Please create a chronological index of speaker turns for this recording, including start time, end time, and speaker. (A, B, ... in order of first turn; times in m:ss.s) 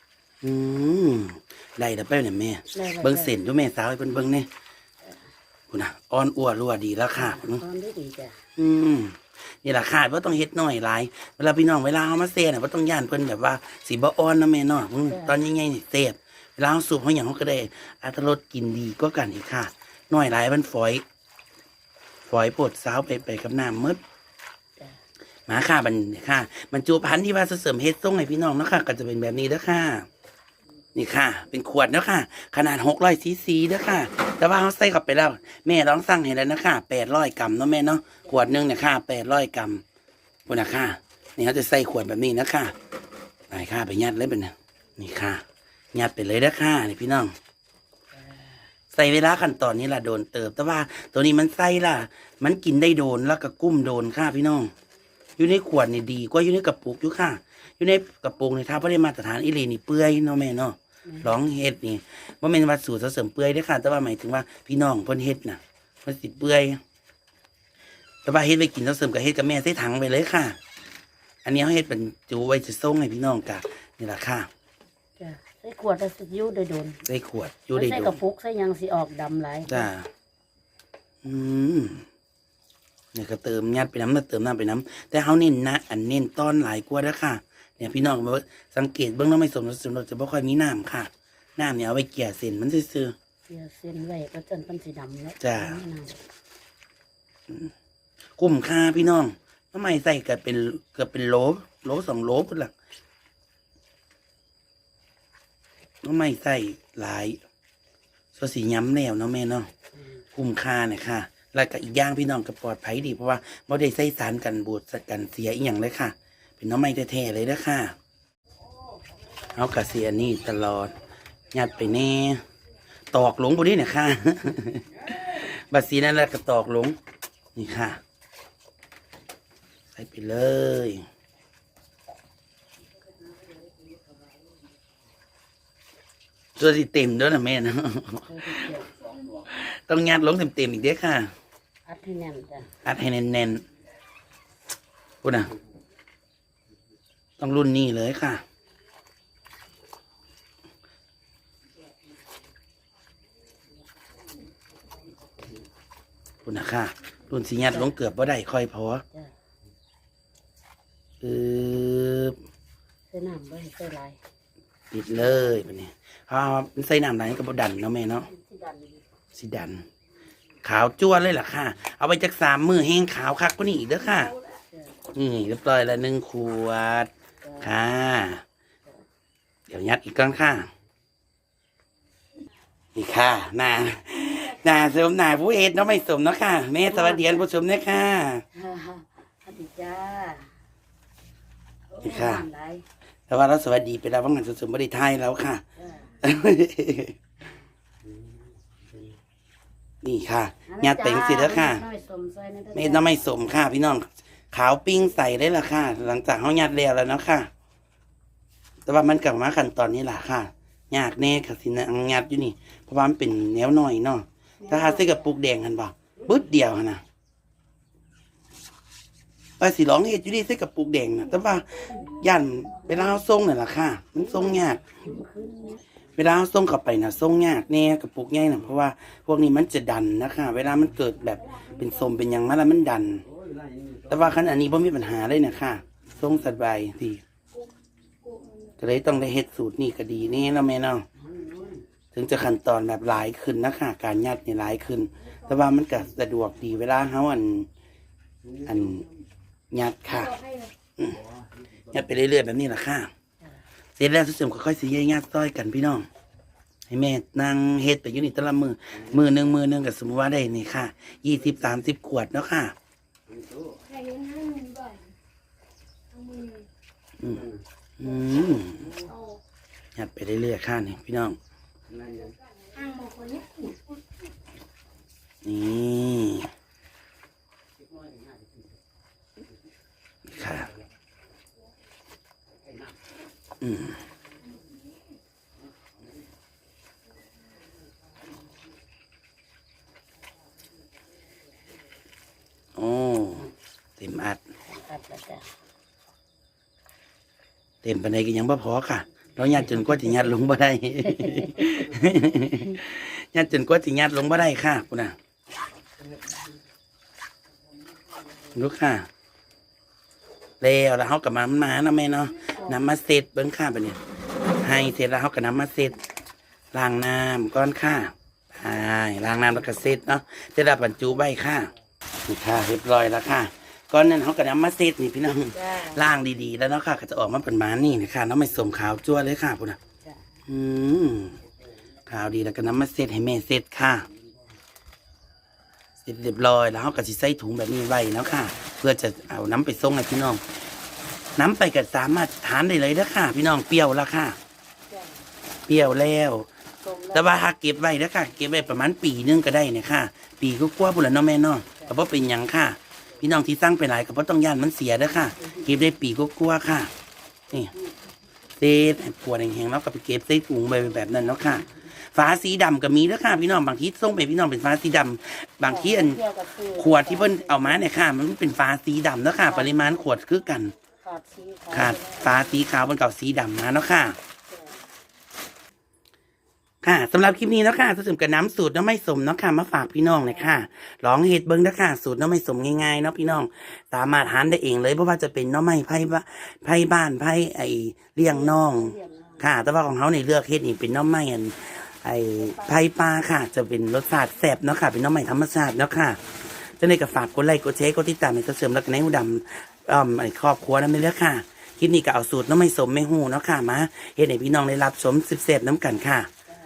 0:00.4-0:04.5 A
0:02.7-0:03.3 B
0:05.0-0:05.3 B
0:05.7-0:07.6 A
0:07.2-0:08.4 B
0:08.6-0:21.0 A
0:15.1-0:15.4 B
0:22.3-0:24.0 A
0:25.5-0:30.1 A
0:30.9-0:39.8 A
0:40.4-0:42.7 A
0:43.5-0:47.3 A
0:48.2-0:48.5 B
0:48.9-0:54.7 A
0:55.4-1:06.8 A
1:08.2-1:10.6 A
1:11.4-1:14.5 A
1:15.2-1:17.0 B
1:17.0-1:18.2 A
1:17.7-1:19.9 B
1:19.7-1:20.1 A
1:21.2-1:22.0 A
1:23.1-1:33.1 A
1:33.5-1:36.2 B
1:35.4-1:35.8 A
1:38.4-1:42.7 A
1:46.0-1:47.4 A
1:48.4-1:49.7 A
1:50.3-1:58.0 A
1:59.5-2:00.9 A
2:01.5-2:02.4 A
2:03.1-2:07.0 A
2:07.5-2:08.0 A
2:09.9-2:11.0 A
2:16.6-2:18.7 A
2:18.3-2:18.9 B
2:19.2-2:21.3 A
2:21.8-2:22.7 B
2:22.8-2:23.6 A
2:25.2-2:25.5 A
2:27.4-2:28.4 A
2:36.4-2:39.0 A
2:41.2-2:42.4 A
2:43.1-2:44.2 B
2:44.9-2:48.3 A
2:45.2-2:45.6 B
2:48.2-2:49.0 B
2:49.3-2:49.8 A
2:50.6-2:54.3 A
2:54.2-2:55.0 B
2:55.1-2:57.1 A
2:57.4-2:57.8 B
2:57.6-2:58.4 A
2:59.7-3:00.7 A
3:02.9-3:08.4 A
3:06.9-3:07.5 B
3:08.5-3:10.5 B
3:11.9-3:12.8 B
3:12.0-3:12.4 A
3:13.3-3:15.6 A
3:15.8-3:16.1 B
3:16.2-3:17.2 A
3:20.0-3:21.8 A
3:20.7-3:23.2 B
3:22.7-3:27.5 A
3:28.9-3:37.0 A
3:34.6-3:35.2 B
3:39.6-3:44.8 A
3:44.9-3:45.8 B
3:46.2-3:53.2 A
3:54.1-3:57.2 A
3:58.2-3:58.7 C
3:58.8-4:01.0 A
4:01.3-4:01.8 B
4:02.1-4:07.7 A
4:08.6-4:09.0 A
4:09.7-4:10.4 A
4:10.4-4:10.7 C
4:11.0-4:11.2 A
4:11.9-4:13.1 A
4:14.0-4:16.1 A
4:16.9-4:22.7 A
4:23.8-4:25.1 C
4:26.1-4:26.6 C
4:27.2-4:29.0 A
4:29.9-4:31.4 A
4:32.7-4:33.7 C
4:35.4-4:36.5 A
4:40.2-4:40.7 A
4:43.6-4:44.0 A
4:52.8-4:54.4 A
4:54.7-4:55.5 B
4:57.8-5:05.2 A
5:01.0-5:01.7 B
5:08.5-5:09.1 A
5:10.6-5:14.0 A
5:14.6-5:16.0 A
5:16.7-5:21.7 A
5:22.2-5:29.8 A
5:25.5-5:26.0 B
5:30.5-5:31.4 A
5:32.0-5:34.0 A
5:36.0-5:40.4 A
5:41.4-5:44.4 A
5:44.9-5:45.2 B
5:45.7-5:46.5 A
5:46.8-5:47.4 B
5:47.1-5:56.9 A
5:58.6-6:10.7 A
6:05.6-6:07.9 B
6:09.5-6:09.7 B
6:11.0-6:12.5 B
6:11.7-6:14.2 A
6:14.5-6:14.8 B
6:16.8-6:46.3 A
6:20.2-6:20.6 B
6:28.2-6:29.5 B
6:32.4-6:32.8 B